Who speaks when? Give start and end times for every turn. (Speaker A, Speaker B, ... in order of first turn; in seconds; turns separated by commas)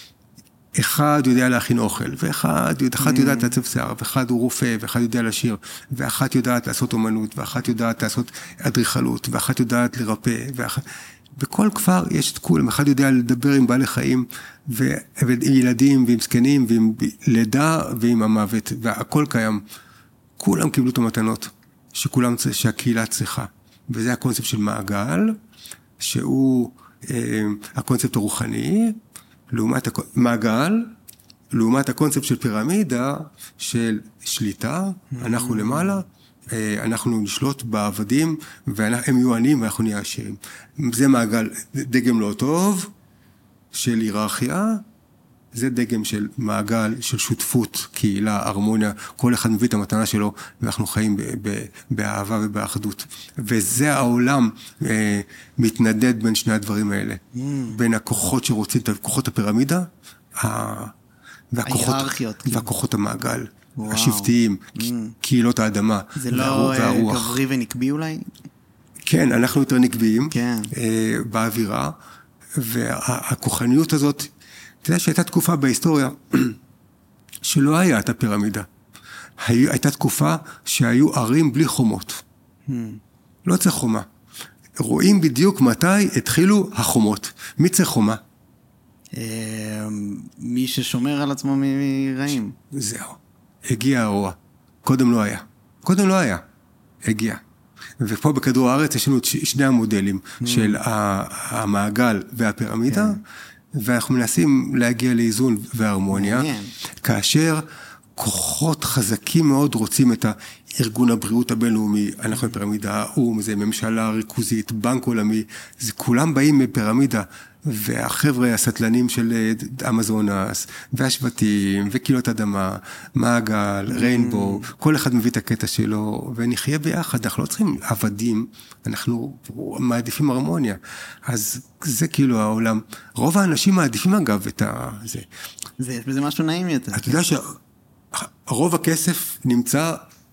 Speaker A: 0.7-19.6, Speaker B: 3.0-3.5, Speaker A: 20.4-25.4, Speaker A: 26.0-29.0, Speaker A: 29.5-30.9, Speaker A: 31.5-42.9, Speaker B: 35.1-36.0, Speaker A: 43.7-44.8, Speaker A: 45.5-60.9, Speaker B: 57.3-57.8, Speaker A: 61.5-67.4, Speaker B: 61.6-62.7, Speaker B: 63.8-65.2, Speaker B: 66.2-68.3, Speaker A: 69.0-72.0, Speaker B: 70.3-70.7, Speaker A: 72.5-74.3, Speaker A: 74.8-76.6, Speaker A: 77.5-78.7, Speaker A: 79.4-82.2, Speaker B: 82.7-83.0, Speaker A: 83.5-84.0, Speaker A: 84.8-88.2, Speaker B: 89.2-92.5, Speaker A: 92.7-96.4, Speaker A: 97.0-97.4, Speaker A: 98.0-103.2, Speaker B: 100.4-100.8, Speaker B: 102.9-103.2, Speaker A: 103.7-107.6, Speaker B: 106.1-106.7, Speaker A: 108.2-135.3, Speaker B: 123.9-124.7, Speaker B: 135.8-137.2, Speaker A: 136.9-137.6, Speaker A: 138.1-140.1